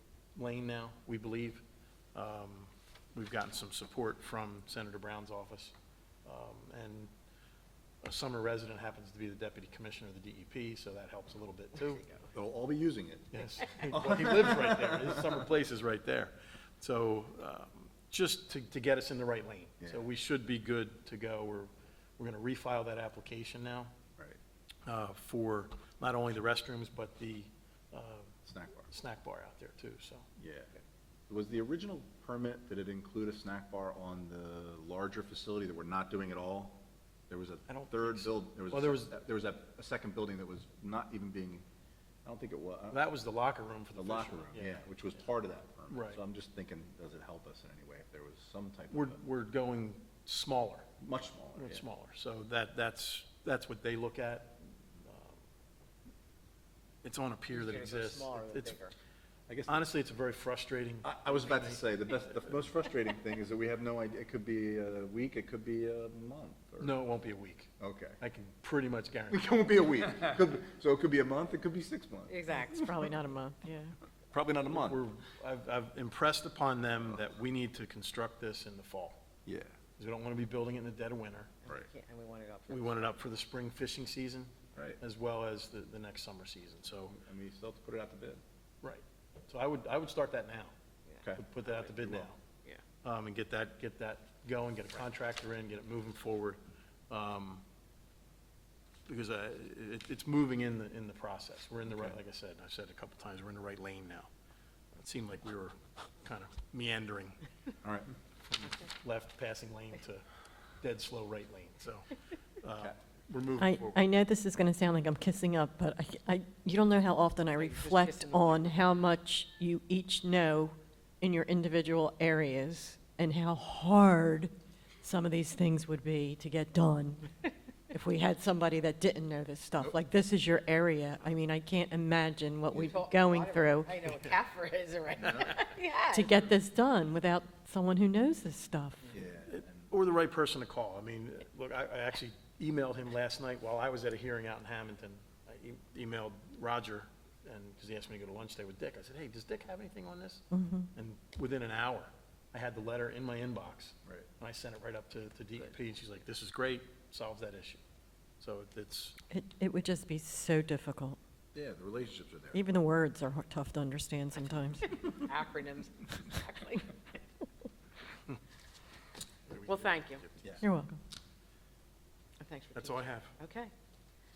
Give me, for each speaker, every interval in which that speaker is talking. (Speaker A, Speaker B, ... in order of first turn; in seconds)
Speaker A: 0.3-1.6, 2.1-5.7, 6.2-7.1, 8.0-12.1, 13.3-23.9, 24.9-28.4, 28.9-30.3, 37.7-39.1, 42.9-44.8, 45.9-46.2, 48.9-50.9, 51.6-55.4, 57.0-58.8, 59.7-61.8, 66.8-69.5, 74.3-79.2, 80.0-81.5, 82.7-87.2, 88.8-90.7, 91.4-92.4, 93.0-97.6, 99.1-104.3, 105.0-107.4, 108.8-110.3, 110.8-114.0, 139.5-157.8, 158.4-159.2, 169.5-170.7, 172.8-173.3
Speaker B: 12.3-15.3, 19.8-20.1, 28.4-28.9, 30.4-30.7, 31.3-41.6, 42.2-43.0, 44.0-49.2, 51.0-51.9, 59.5-59.9, 61.0-67.0, 67.8-68.2, 69.3-72.7, 74.3-75.0, 79.5-79.7, 87.1-88.4, 92.0-92.3, 107.8-108.1, 139.1-139.9, 161.5-162.7
Speaker C: 57.5-58.9, 72.3-72.9, 81.6-83.2, 91.1-91.9, 117.5-118.8, 132.8-136.3, 165.2-167.0, 169.7-170.2, 172.4-173.7
Speaker D: 72.8-74.0, 113.6-124.5, 125.0-127.3, 127.9-133.9, 136.1-139.1, 150.5-150.9, 159.3-161.2, 162.5-165.3, 170.6-171.0